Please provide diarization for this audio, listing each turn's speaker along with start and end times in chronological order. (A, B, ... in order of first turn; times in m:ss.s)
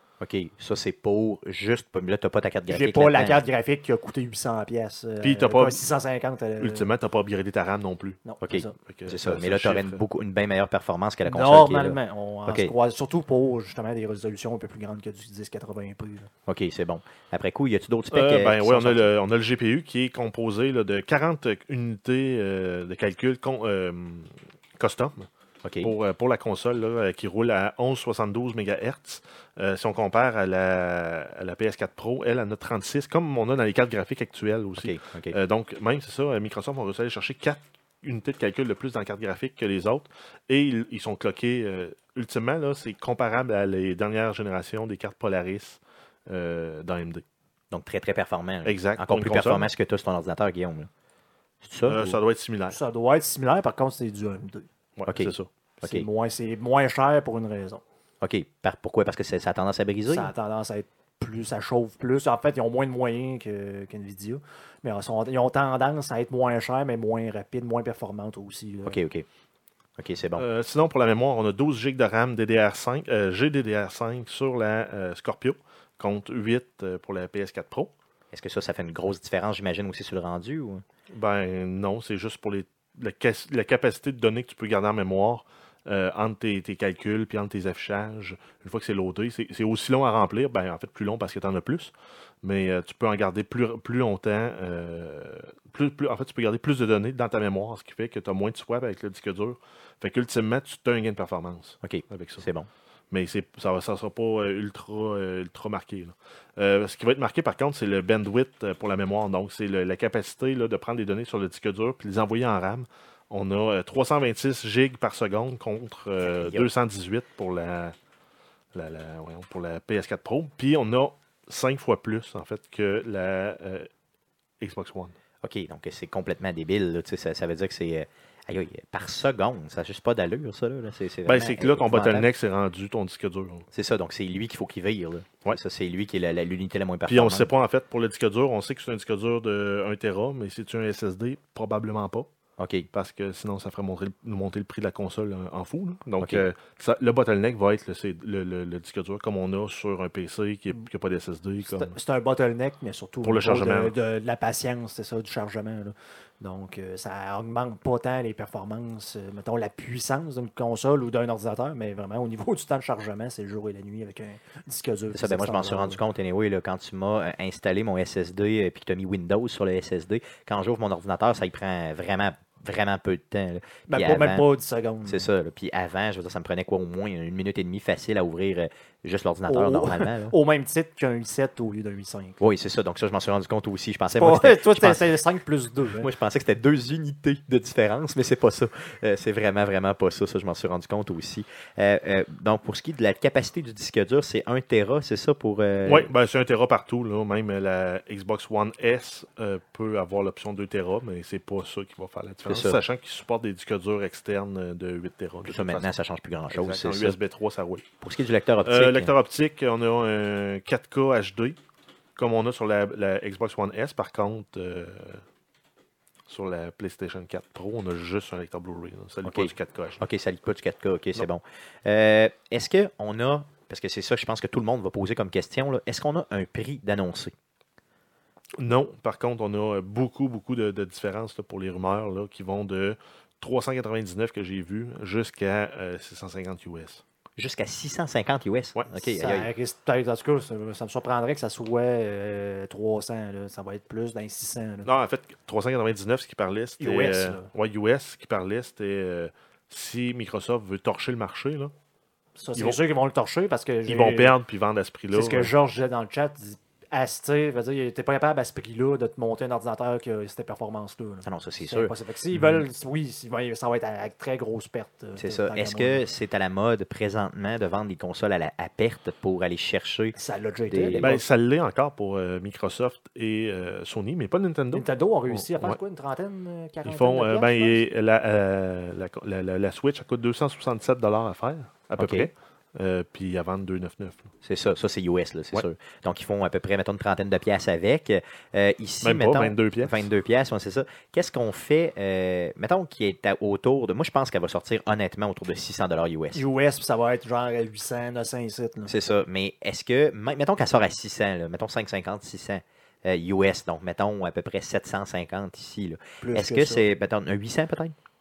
0:00.2-0:03.4 A
0:02.7-0:06.9 B
0:05.2-0:05.8 C
0:06.6-0:08.2 C
0:08.2-0:08.7 B
0:08.4-0:12.7 A
0:08.8-0:10.0 C
0:11.2-0:16.3 B
0:16.5-0:19.1 A
0:18.1-0:25.3 C
0:25.6-0:25.9 A
0:25.8-0:47.2 C
0:34.8-0:35.3 A
0:47.7-0:50.9 A
0:48.6-0:49.7 C
0:51.6-0:52.2 A
0:51.8-0:52.8 C
0:52.7-0:54.7 B
0:55.0-0:55.5 C
0:55.1-0:56.0 A
0:55.8-0:57.8 B
0:58.2-1:00.3 A
1:00.1-1:09.0 B
1:08.8-1:09.2 A
1:10.0-1:10.4 A
1:10.4-1:17.9 C
1:18.3-1:20.8 A
1:21.1-1:42.4 C
1:41.8-1:42.7 A
1:43.1-1:57.9 C
1:56.3-1:56.7 A
1:58.7-2:03.9 C
2:04.6-2:05.1 C
2:05.4-2:12.3 A
2:11.2-2:13.7 C
2:13.7-2:17.5 A
2:17.1-2:22.3 C
2:22.6-2:22.9 A
2:22.9-2:32.0 C
2:31.7-2:46.0 B
2:33.2-2:33.9 C
2:45.1-2:54.4 A
2:53.9-2:55.3 B
2:55.0-3:00.3 A
2:59.5-3:02.4 B
3:02.4-3:05.0 A
3:04.2-3:06.1 B
3:06.0-3:16.1 A
3:15.8-3:25.9 C
3:22.4-3:22.8 A
3:25.4-3:27.2 A
3:26.5-3:27.9 C
3:28.0-3:29.1 A
3:28.6-3:31.6 C
3:32.2-3:35.2 C
3:36.3-3:40.0 C
3:39.2-3:47.3 A
3:48.6-3:57.0 C
3:57.4-3:59.5 A
3:59.2-4:04.9 B
4:04.8-4:11.7 C
4:06.8-4:07.5 B
4:12.4-4:14.3 B
4:13.8-4:15.5 C
4:15.1-4:26.1 B
4:21.2-4:21.9 A
4:25.2-4:30.2 A
4:30.1-4:31.2 B
4:30.7-4:31.1 A
4:31.0-4:35.8 C
4:34.7-4:37.8 B
4:36.8-4:44.3 C
4:42.0-4:42.3 A
4:44.4-4:56.4 A
4:49.0-4:50.0 C
4:56.3-4:58.9 B
4:58.9-5:07.9 A
5:06.2-5:06.9 B